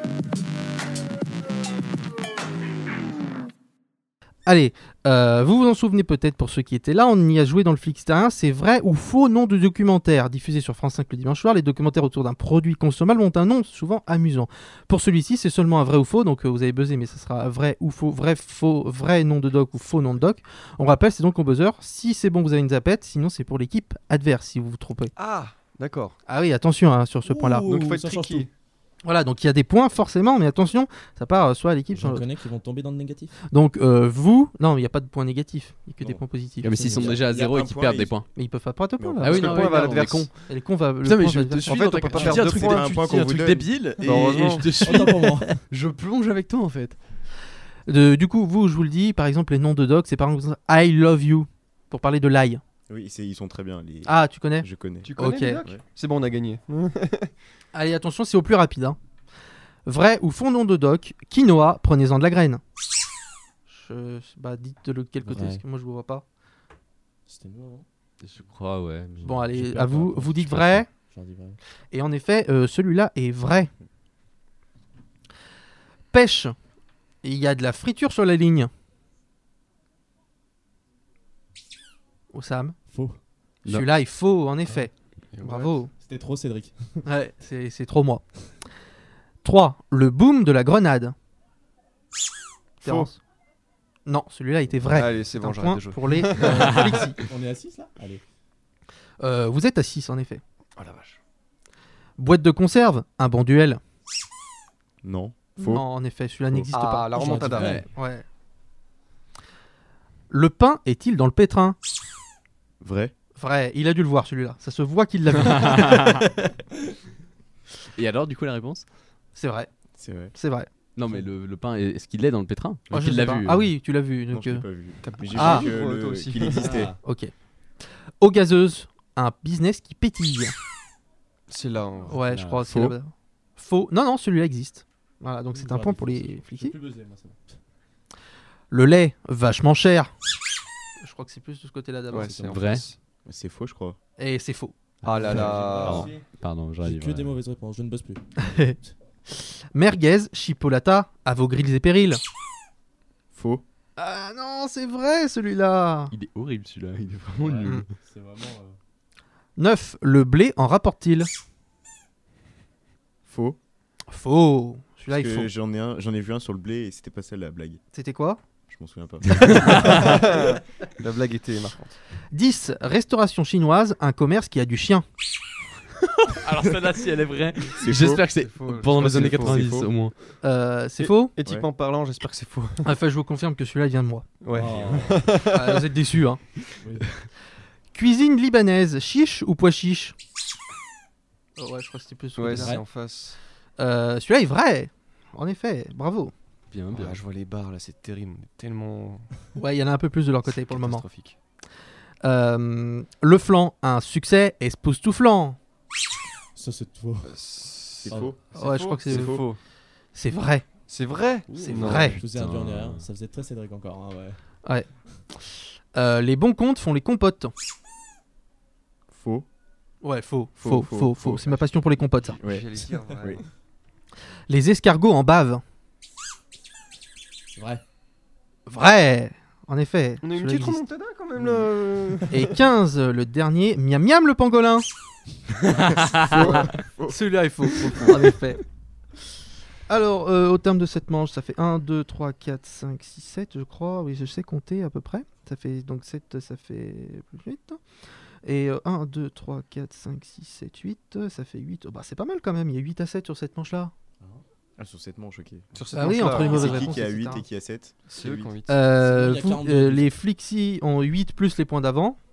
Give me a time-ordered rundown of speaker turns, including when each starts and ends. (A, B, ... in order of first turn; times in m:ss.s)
0:04.5-0:25.1 A
0:25.2-0:26.2 B
0:26.3-0:27.7 A
0:27.2-0:28.5 C
0:27.6-0:28.5 B
0:29.0-0:32.2 A
0:31.9-0:33.4 C
0:33.5-0:36.7 A
0:36.0-0:37.2 C
0:36.6-0:38.3 D
0:37.0-0:38.2 E
0:38.3-0:42.5 A
0:39.0-0:39.6 E
0:39.2-0:40.3 B
0:39.2-0:40.3 D
0:41.0-0:47.0 D
0:41.7-0:42.9 B
0:42.2-0:43.9 E
0:44.0-0:44.8 B
0:44.8-0:45.6 C
0:47.9-0:52.6 A
0:52.9-0:55.8 E
0:54.0-0:55.6 A
0:55.0-0:57.3 B
0:57.7-0:59.0 A
0:59.9-1:02.6 A
1:03.7-1:06.2 A
1:05.2-1:05.6 C
1:07.3-1:07.9 C
1:08.2-1:10.3 D
1:09.2-1:11.6 C
1:09.2-1:10.9 A
1:11.9-1:13.7 A
1:16.1-1:16.6 A
1:17.2-1:18.7 A
1:22.3-1:22.8 A
1:22.9-1:23.2 C
1:23.6-1:25.9 A
1:25.3-1:25.8 B
1:26.0-1:27.0 C
1:27.0-1:28.2 A
1:29.4-1:31.2 A
1:32.8-1:33.1 B
1:32.8-1:33.2 A
1:34.1-1:37.2 A
1:34.9-1:36.8 B
1:36.4-1:38.2 C
1:39.2-1:40.4 A
1:40.8-1:41.2 B
1:42.2-1:43.8 A
1:45.0-1:45.9 E
1:45.6-1:48.2 A
1:46.7-1:47.8 B
1:47.2-1:47.8 C
1:47.6-1:47.8 D
1:50.3-1:51.8 A
1:52.8-1:53.1 E
1:53.4-1:56.3 A
1:55.4-1:56.2 D
1:58.0-1:58.8 D
1:59.4-1:59.7 A
2:00.0-2:00.4 E
2:00.3-2:00.7 A
2:01.0-2:03.7 D
2:02.9-2:04.7 A
2:04.3-2:06.9 E
2:05.0-2:06.9 B
2:05.3-2:05.7 A
2:06.6-2:07.0 C
2:07.0-2:07.3 A
2:08.2-2:10.5 A
2:11.5-2:12.2 B
2:12.1-2:16.8 A
2:12.2-2:12.8 D
2:12.6-2:13.0 E
2:15.5-2:17.6 C
2:18.7-2:20.1 A
2:21.0-2:22.4 A
2:22.1-2:23.0 B
2:22.5-2:22.9 D
2:23.2-2:24.0 E
2:24.2-2:24.8 A
2:25.0-2:27.3 D
2:25.0-2:26.1 B
2:25.1-2:26.3 C
2:26.8-2:28.9 C
2:28.4-2:28.8 A
2:29.7-2:32.2 A
2:33.3-2:33.6 E
2:34.0-2:36.1 A
2:36.1-2:37.9 D
2:37.4-2:38.8 C
2:39.6-2:41.3 A
2:43.3-2:43.6 E
2:44.1-2:45.5 A
2:45.1-2:47.8 E
2:47.9-2:48.4 A
2:48.7-2:50.2 E
2:49.5-2:49.9 D
2:49.9-2:52.0 B
2:52.3-2:55.0 A
2:56.4-3:00.1 D
2:57.8-2:58.3 E
2:58.3-2:59.6 B
2:59.0-2:59.9 E
3:00.4-3:01.3 A
3:01.0-3:02.9 B
3:01.4-3:01.7 E
3:02.8-3:04.3 A
3:04.4-3:05.8 B
3:04.5-3:05.3 C
3:05.5-3:06.5 A
3:06.8-3:07.1 C
3:07.9-3:10.2 A
3:11.6-3:12.8 A
3:12.4-3:13.4 B
3:12.6-3:12.9 C
3:13.8-3:16.3 A
3:16.7-3:17.2 D
3:16.9-3:19.3 B
3:19.6-3:21.1 A
3:20.5-3:21.4 B
3:22.2-3:25.6 A
3:26.6-3:27.4 C
3:27.2-3:29.6 B
3:28.0-3:28.5 E
3:28.1-3:28.3 C
3:28.6-3:29.5 A
3:29.0-3:29.4 E
3:30.1-3:30.7 A
3:30.9-3:32.2 B
3:31.5-3:34.4 C
3:31.6-3:32.2 A
3:32.1-3:33.1 D
3:36.0-3:37.5 A
3:39.1-3:39.5 E
3:40.0-3:42.4 A
3:40.6-3:41.6 E
3:42.4-3:43.4 E
3:42.4-3:43.4 B
3:44.5-3:45.6 A
3:47.6-3:47.8 C
3:48.7-3:50.8 A
3:50.2-3:52.5 B
3:51.4-3:51.7 E
3:52.3-3:54.9 A
3:56.2-3:57.3 E
3:57.1-3:58.6 A
3:57.8-3:58.1 E
3:59.9-4:07.8 A
4:08.4-4:13.9 A
4:14.8-4:18.6 E
4:15.7-4:17.0 B
4:15.9-4:17.4 A
4:18.0-4:18.8 B
4:18.7-4:22.2 A
4:18.9-4:20.1 C